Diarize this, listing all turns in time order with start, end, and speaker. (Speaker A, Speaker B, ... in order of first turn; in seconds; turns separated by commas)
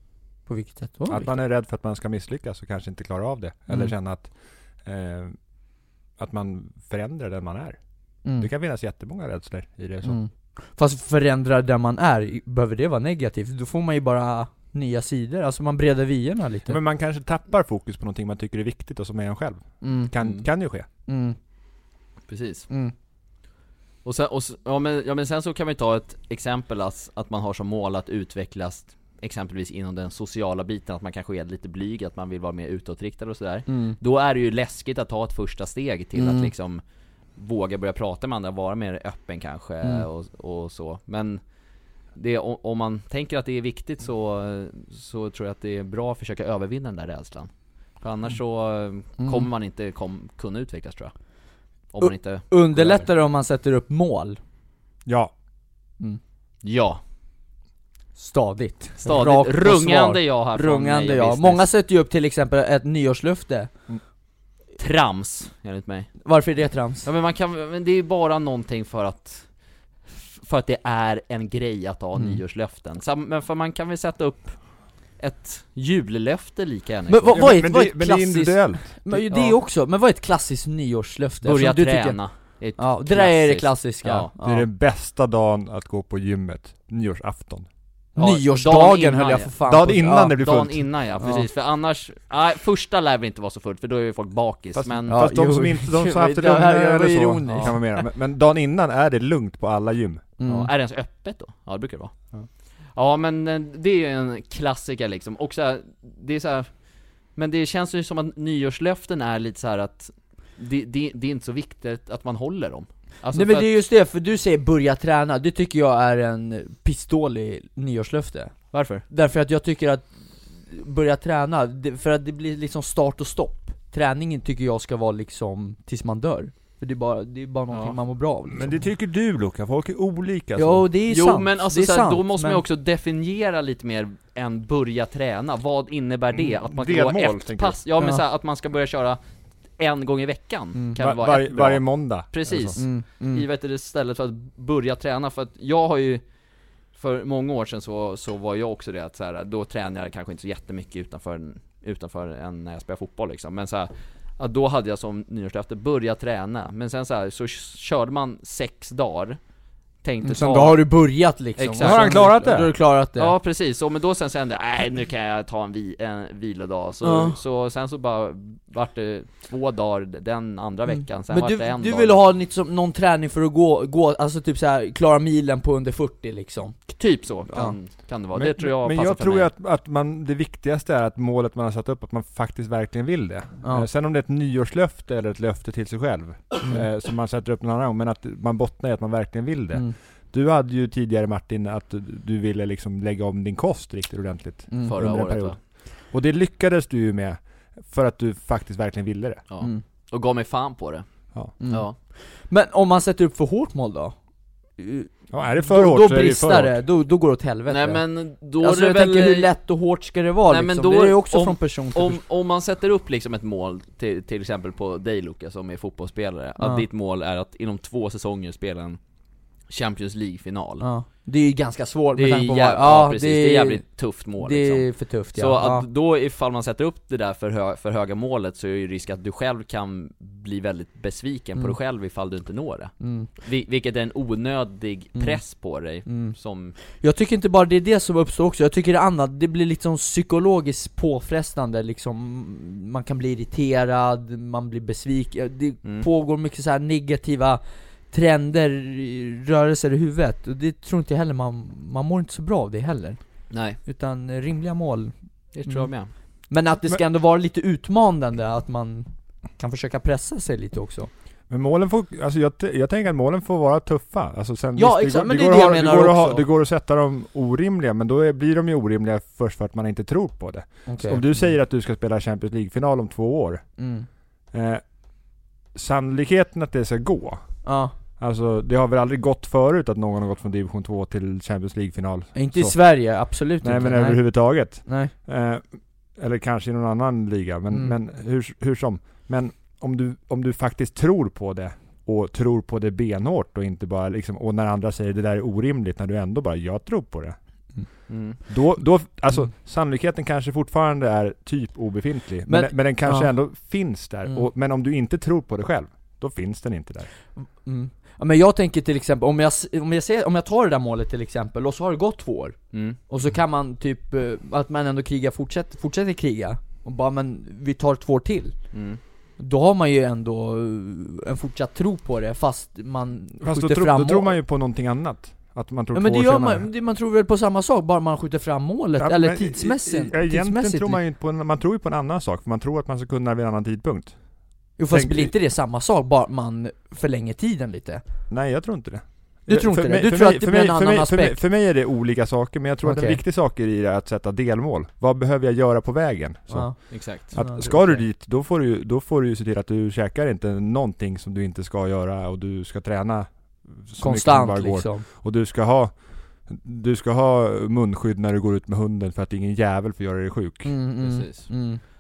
Speaker A: 0.5-1.4, Speaker B: 1.1-4.3, Speaker B: 4.8-5.3, Speaker B: 6.2-7.8, Speaker B: 8.4-10.2, Speaker A: 10.0-16.8, Speaker B: 16.6-20.9, Speaker A: 19.8-20.1, Speaker A: 21.1-21.4, Speaker C: 22.3-22.7, Speaker C: 24.0-36.8, Speaker A: 33.7-34.0, Speaker A: 36.1-36.5, Speaker C: 37.4-41.4, Speaker C: 42.1-51.1, Speaker A: 49.2-49.5, Speaker C: 51.9-53.1, Speaker A: 52.0-54.4, Speaker B: 55.1-55.3, Speaker C: 56.6-57.0, Speaker A: 58.2-63.7, Speaker C: 59.0-61.6, Speaker C: 64.8-66.1, Speaker A: 66.2-67.1, Speaker C: 67.0-69.5, Speaker C: 70.0-74.6, Speaker C: 75.2-77.5, Speaker A: 77.1-82.2, Speaker B: 77.3-79.2, Speaker C: 81.4-84.3, Speaker A: 82.8-84.7, Speaker B: 84.4-87.7, Speaker C: 88.2-89.5, Speaker A: 88.2-90.3, Speaker B: 89.6-90.8, Speaker C: 90.2-95.3, Speaker A: 91.2-91.5, Speaker B: 94.8-100.2, Speaker A: 95.1-97.8, Speaker A: 100.4-100.7, Speaker C: 100.5-102.2, Speaker C: 102.9-106.8, Speaker C: 107.3-113.7, Speaker A: 113.3-118.5, Speaker C: 118.7-119.0, Speaker A: 119.1-120.1, Speaker A: 120.7-128.8, Speaker C: 127.7-128.0, Speaker B: 128.5-130.8, Speaker A: 130.6-132.6, Speaker C: 131.1-139.2, Speaker B: 136.3-137.8, Speaker A: 138.0-138.2, Speaker C: 139.8-146.2, Speaker A: 140.7-141.0, Speaker B: 141.0-142.8, Speaker A: 142.8-143.4, Speaker C: 146.9-159.4, Speaker C: 160.0-160.8, Speaker A: 160.2-163.3, Speaker C: 161.6-162.3, Speaker B: 161.8-162.7, Speaker C: 163.2-172.2, Speaker A: 167.0-167.4, Speaker A: 170.9-176.9, Speaker C: 177.0-179.5, Speaker B: 178.3-199.4, Speaker A: 183.6-183.9, Speaker A: 194.7-195.0, Speaker C: 194.8-195.6, Speaker C: 199.5-201.1, Speaker A: 201.6-204.2, Speaker C: 201.6-202.0, Speaker A: 204.8-208.0, Speaker B: 205.3-206.8, Speaker C: 207.7-209.5, Speaker A: 208.6-212.2, Speaker C: 210.5-219.0, Speaker A: 216.6-216.8, Speaker C: 219.7-220.8, Speaker A: 220.8-223.8, Speaker C: 222.2-236.8, Speaker A: 224.4-225.8, Speaker A: 233.0-233.3, Speaker A: 235.2-235.4, Speaker A: 236.0-236.3, Speaker A: 237.0-253.2, Speaker C: 253.5-253.8, Speaker A: 253.8-255.1, Speaker C: 255.5-256.1, Speaker A: 255.7-255.9, Speaker A: 256.5-261.1, Speaker B: 261.5-273.6, Speaker A: 264.8-266.5, Speaker A: 270.9-271.5, Speaker A: 273.8-274.1, Speaker B: 274.5-274.8, Speaker B: 275.7-277.6, Speaker A: 277.6-277.9, Speaker B: 278.2-282.8, Speaker A: 282.3-285.1, Speaker B: 283.6-285.6, Speaker B: 286.2-297.4, Speaker C: 298.1-298.4, Speaker B: 298.5-307.1, Speaker A: 302.5-303.3, Speaker A: 307.4-312.6, Speaker C: 312.7-313.0, Speaker A: 313.1-318.5, Speaker C: 318.7-319.0, Speaker A: 319.4-324.4, Speaker B: 323.4-326.7, Speaker A: 325.9-331.0, Speaker B: 329.0-334.2, Speaker A: 334.8-338.0, Speaker B: 334.9-335.3, Speaker B: 338.3-360.7, Speaker A: 339.5-341.4, Speaker A: 342.8-343.2, Speaker A: 346.5-348.0, Speaker C: 346.9-347.3, Speaker A: 354.0-355.1, Speaker A: 360.6-361.8, Speaker C: 361.0-361.6